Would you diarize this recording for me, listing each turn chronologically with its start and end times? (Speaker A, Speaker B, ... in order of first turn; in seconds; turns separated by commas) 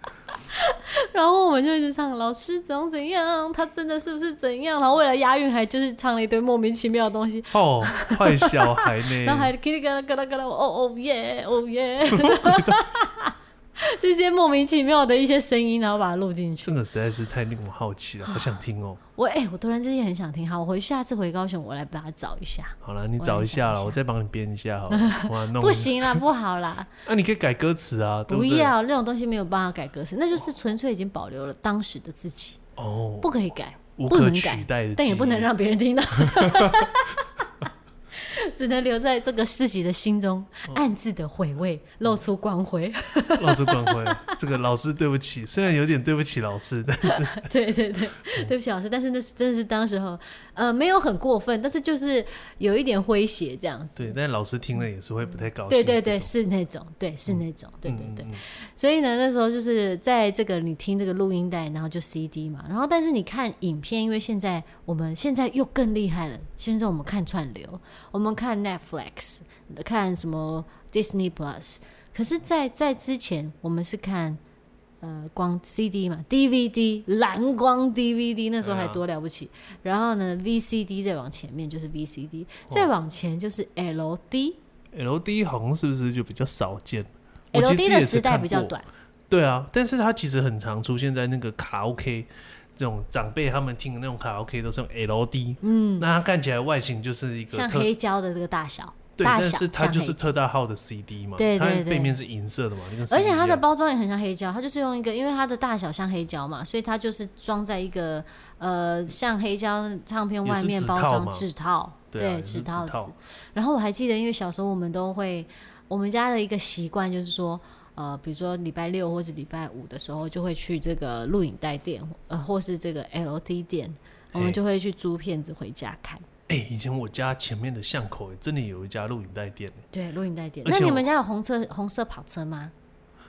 Speaker A: 0.5-16.7, Speaker B: 7.5-9.5, Speaker B: 12.0-13.0, Speaker B: 16.6-19.0, Speaker A: 18.2-18.6, Speaker A: 19.2-24.0, Speaker B: 22.8-26.2, Speaker A: 24.9-26.9, Speaker B: 27.1-28.7, Speaker A: 28.3-32.6, Speaker B: 32.8-33.3, Speaker A: 33.2-37.5, Speaker B: 34.0-35.5, Speaker B: 36.2-37.0, Speaker A: 38.1-44.4, Speaker B: 43.4-47.5, Speaker A: 47.1-54.2, Speaker B: 48.2-48.5, Speaker B: 54.0-56.3, Speaker A: 55.7-74.4, Speaker B: 57.3-58.4, Speaker A: 75.0-84.6, Speaker B: 78.6-79.0, Speaker B: 84.9-88.8, Speaker A: 87.5-88.9, Speaker B: 89.3-97.9, Speaker A: 95.6-96.1, Speaker A: 97.5-100.2, Speaker B: 99.2-103.6, Speaker A: 101.4-102.2, Speaker A: 103.1-126.2, Speaker B: 110.5-111.5, Speaker B: 112.1-113.1, Speaker B: 124.3-124.6, Speaker B: 126.5-129.8, Speaker A: 129.9-132.7, Speaker B: 130.6-131.1